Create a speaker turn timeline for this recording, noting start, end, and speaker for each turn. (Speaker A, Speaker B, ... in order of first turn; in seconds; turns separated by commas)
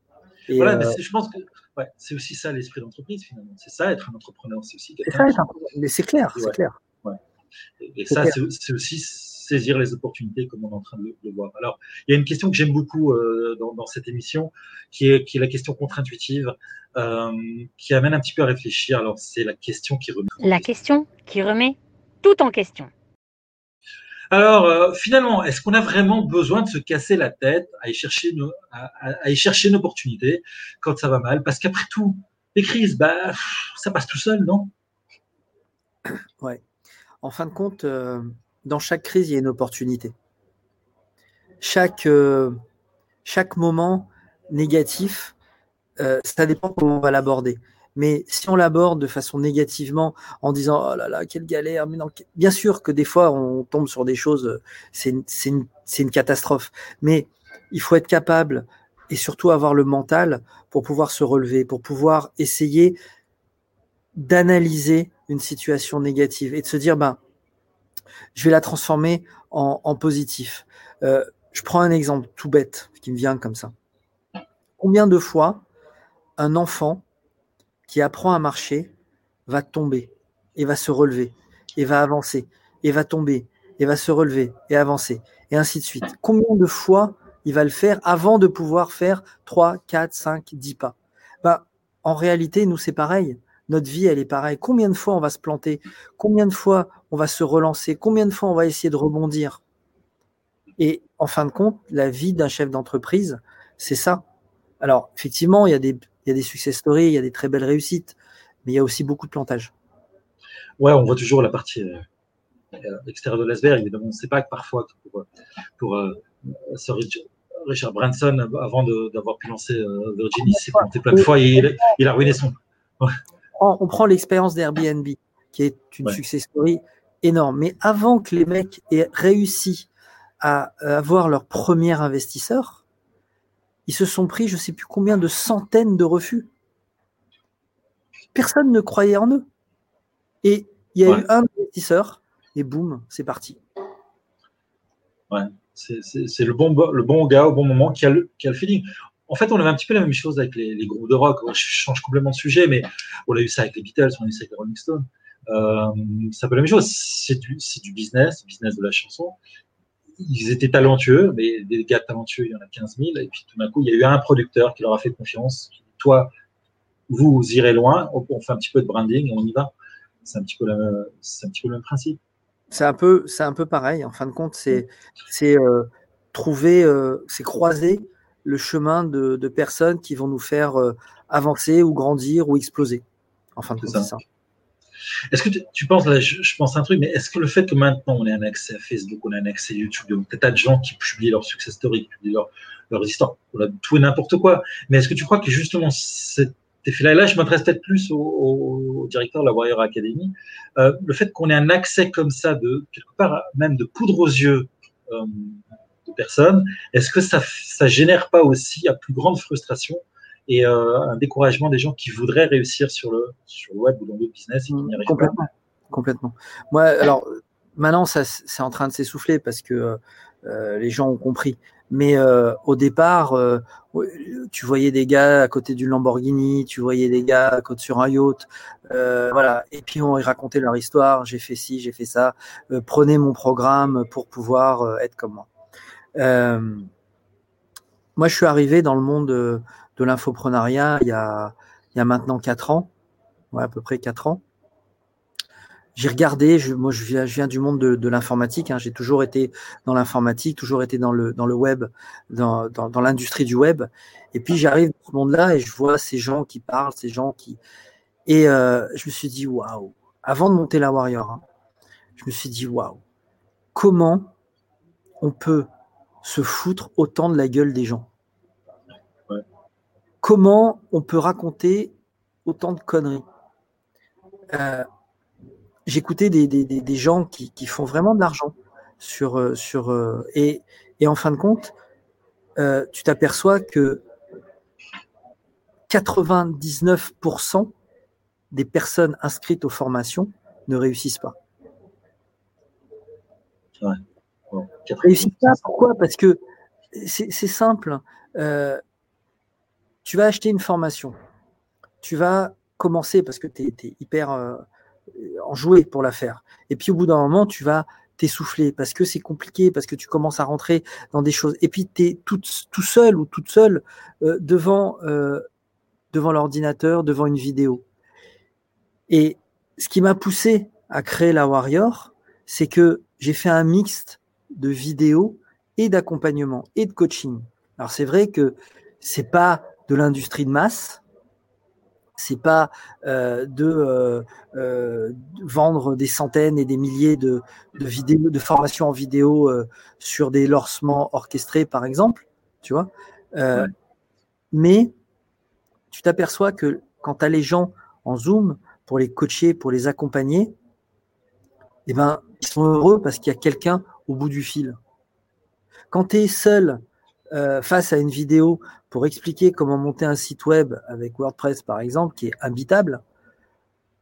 Speaker A: 0.5-1.0, Speaker B: 0.5-5.3, Speaker A: 5.0-6.8, Speaker B: 6.3-7.2, Speaker B: 7.8-20.6, Speaker A: 8.1-8.3, Speaker C: 20.4-22.9, Speaker B: 24.3-34.7, Speaker A: 37.2-40.1, Speaker A: 41.6-42.6, Speaker A: 43.2-45.3, Speaker A: 46.0-63.0, Speaker A: 64.1-67.2, Speaker A: 68.3-73.7, Speaker A: 74.8-75.6, Speaker A: 76.4-77.0, Speaker A: 77.9-78.9, Speaker A: 79.5-99.6, Speaker A: 100.8-104.2, Speaker A: 104.8-109.7, Speaker B: 110.8-112.1, Speaker B: 112.7-115.3, Speaker B: 115.8-123.1, Speaker A: 120.5-121.7, Speaker A: 123.6-129.9, Speaker A: 130.4-132.8, Speaker A: 133.9-136.5, Speaker A: 138.3-139.4, Speaker A: 140.4-143.6, Speaker B: 145.3-159.4, Speaker B: 160.2-166.3, Speaker B: 167.1-169.7, Speaker B: 170.2-172.2, Speaker A: 172.7-183.0, Speaker A: 183.6-184.2, Speaker B: 183.8-184.1, Speaker B: 185.3-215.3, Speaker A: 214.7-235.5, Speaker A: 236.2-236.9, Speaker A: 238.2-242.9, Speaker A: 243.5-244.4, Speaker A: 245.9-257.6, Speaker A: 258.3-261.4, Speaker A: 262.2-263.0, Speaker A: 263.7-264.3, Speaker A: 265.2-265.7, Speaker A: 266.2-268.1, Speaker A: 270.2-271.9, Speaker A: 272.4-273.2, Speaker A: 274.5-274.8, Speaker A: 275.9-281.7, Speaker A: 282.6-284.0, Speaker A: 285.9-287.7, Speaker A: 288.5-291.4, Speaker B: 293.8-295.6, Speaker A: 295.0-296.4, Speaker A: 296.9-298.8, Speaker A: 300.0-301.1, Speaker A: 302.0-304.6, Speaker A: 305.1-315.4, Speaker A: 316.1-317.8, Speaker A: 319.1-331.0, Speaker A: 332.2-343.7, Speaker A: 344.5-344.9, Speaker A: 345.9-350.5, Speaker A: 351.9-354.8, Speaker A: 355.9-363.0